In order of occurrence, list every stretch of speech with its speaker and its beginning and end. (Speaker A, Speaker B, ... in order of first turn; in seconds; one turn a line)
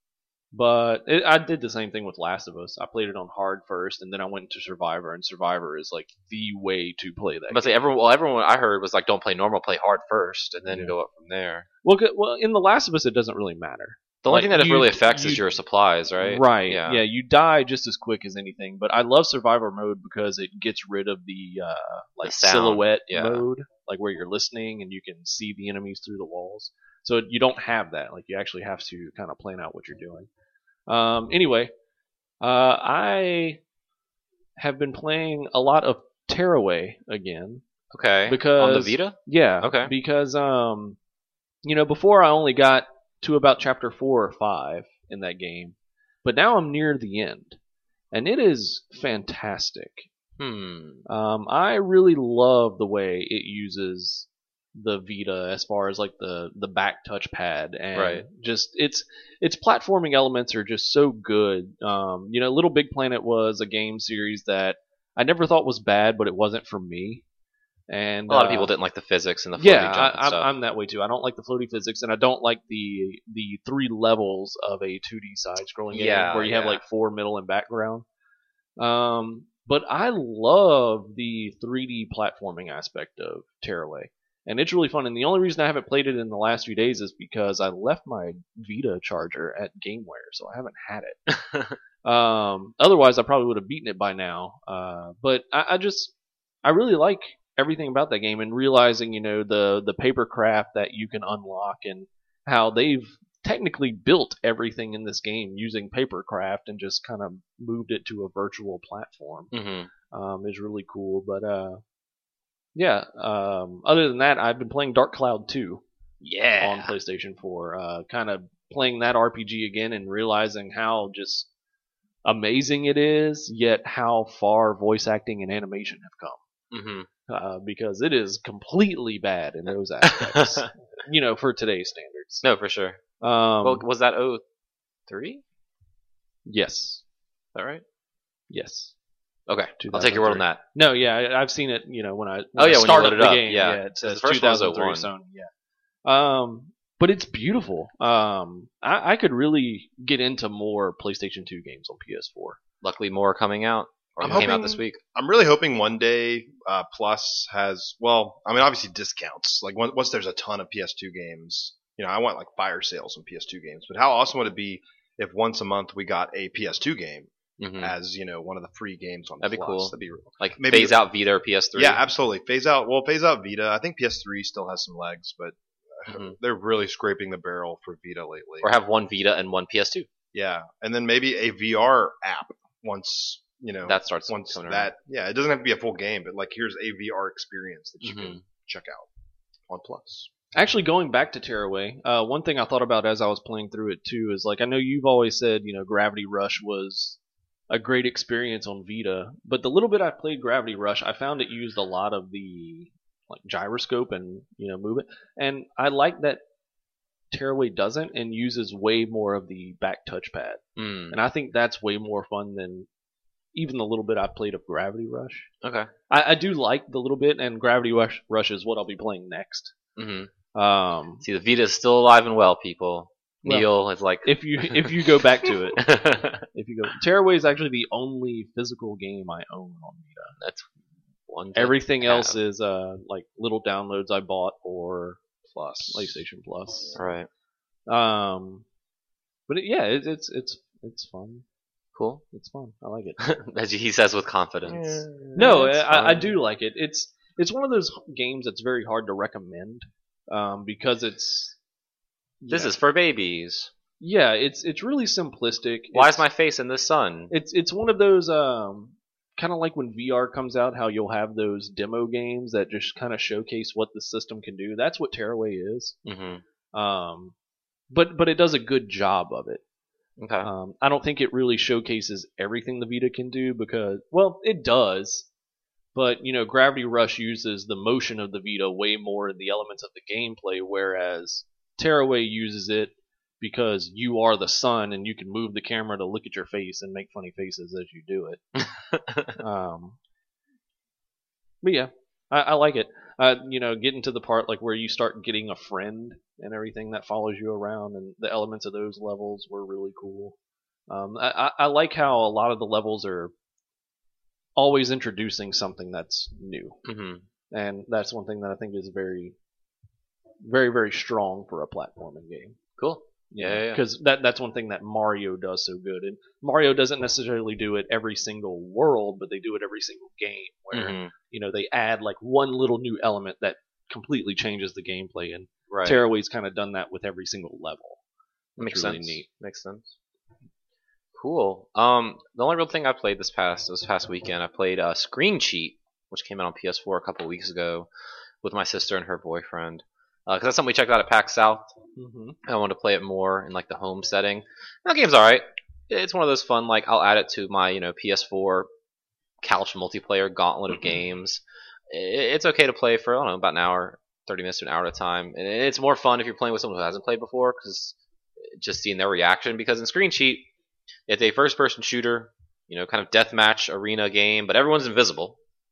Speaker A: 0.5-7.7
Speaker B: 7.5-11.7
Speaker A: 10.7-10.9
Speaker A: 11.8-15.4
Speaker B: 14.2-17.0
Speaker A: 16.2-30.3
Speaker B: 22.2-23.4
Speaker A: 30.9-31.7
Speaker A: 32.4-33.6
Speaker A: 34.6-37.6
Speaker B: 37.9-39.9
Speaker A: 38.3-41.0
Speaker A: 41.6-47.6
Speaker A: 48.1-50.1
Speaker B: 50.4-51.0
Speaker A: 51.1-67.2
Speaker B: 57.9-58.2
Speaker A: 67.9-68.7
Speaker B: 68.3-70.5
Speaker A: 69.6-78.0
Speaker B: 75.9-76.8
Speaker A: 78.8-91.3
Speaker A: 92.0-96.1
Speaker A: 96.6-109.5
Speaker B: 109.5-109.9
Speaker A: 110.1-111.8
Speaker A: 112.7-115.8
Speaker B: 116.2-116.9
Speaker A: 116.5-121.5
Speaker A: 122.2-126.4
Speaker B: 126.7-127.1
Speaker A: 127.3-132.4
Speaker B: 130.0-130.7
Speaker B: 132.4-133.0
Speaker A: 133.2-133.8
Speaker B: 133.6-134.4
Speaker B: 135.1-135.4
Speaker A: 136.4-137.0
Speaker B: 137.5-137.8
Speaker A: 138.5-138.9
Speaker B: 139.5-140.6
Speaker A: 139.8-145.5
Speaker B: 142.6-145.1
Speaker A: 146.0-152.6
Speaker B: 152.8-155.0
Speaker C: 154.2-171.0
Speaker B: 167.6-167.9
Speaker B: 169.4-172.0
Speaker C: 171.7-178.7
Speaker B: 176.1-176.3
Speaker B: 178.6-180.1
Speaker C: 180.3-189.1
Speaker B: 183.8-184.9
Speaker B: 188.0-188.4
Speaker C: 189.7-190.3
Speaker A: 190.5-197.2
Speaker A: 197.7-206.4
Speaker A: 207.3-212.9
Speaker B: 210.8-211.2
Speaker A: 213.5-215.5
Speaker B: 215.6-215.9
Speaker A: 216.1-219.7
Speaker B: 220.0-220.3
Speaker A: 220.5-221.2
Speaker B: 221.2-226.4
Speaker A: 223.4-223.7
Speaker A: 224.2-230.3
Speaker B: 230.4-230.7
Speaker B: 231.3-232.4
Speaker A: 231.5-237.0
Speaker C: 235.5-236.1
Speaker B: 236.9-237.3
Speaker A: 237.9-238.6
Speaker A: 239.5-241.4
Speaker B: 241.9-242.2
Speaker A: 242.3-243.2
Speaker B: 243.2-246.3
Speaker C: 244.7-245.5
Speaker A: 245.3-251.6
Speaker A: 252.4-252.7
Speaker B: 252.5-253.7
Speaker A: 254.0-256.3
Speaker B: 255.9-257.3
Speaker A: 257.3-266.0
Speaker B: 266.0-266.4
Speaker A: 266.7-267.3
Speaker A: 267.9-269.6
Speaker B: 270.2-270.5
Speaker A: 270.4-275.3
Speaker A: 275.9-288.4
Speaker B: 288.6-289.4
Speaker A: 289.4-290.0
Speaker A: 291.6-300.3
Speaker A: 300.9-303.3
Speaker A: 304.6-306.8
Speaker B: 306.8-307.2
Speaker A: 307.5-309.3
Speaker A: 310.4-312.6
Speaker B: 312.8-313.8
Speaker A: 313.3-328.0
Speaker B: 320.7-321.1
Speaker B: 325.7-326.0
Speaker A: 328.6-329.2
Speaker B: 328.6-329.9
Speaker B: 331.1-337.9
Speaker B: 338.4-341.7
Speaker A: 341.9-342.4
Speaker B: 342.4-348.7
Speaker B: 349.4-357.9
Speaker B: 358.5-360.5
Speaker B: 361.1-365.4